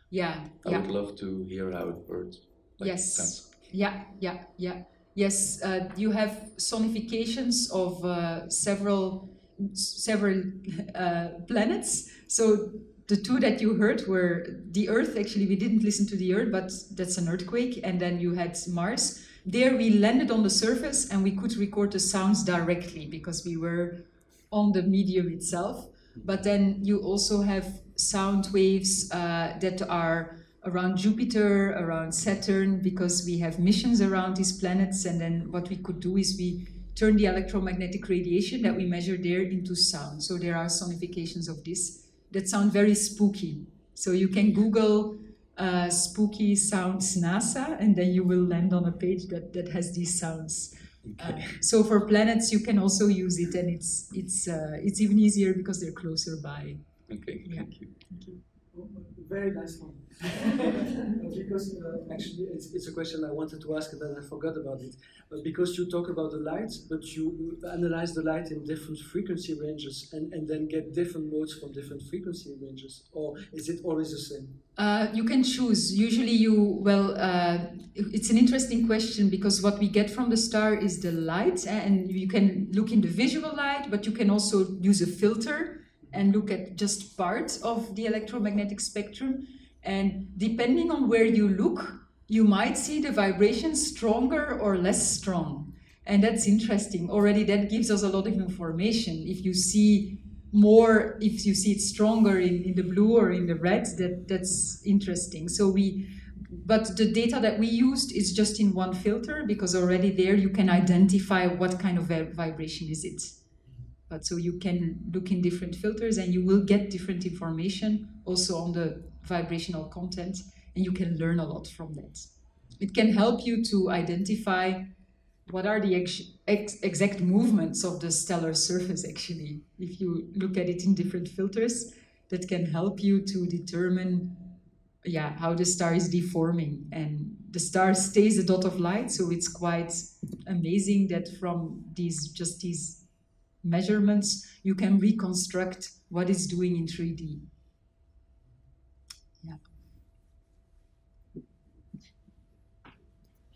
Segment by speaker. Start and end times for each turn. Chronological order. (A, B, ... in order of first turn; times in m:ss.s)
0:00.1-0:00.9 A
0:00.6-0:03.7 B
0:02.8-0:56.9 A
0:57.1-0:58.0 B
0:57.4-0:58.4 A
0:58.7-1:14.6 C
1:14.8-1:53.4 A
1:54.1-2:04.9 A
2:05.5-2:23.1 A
2:23.6-2:27.5 A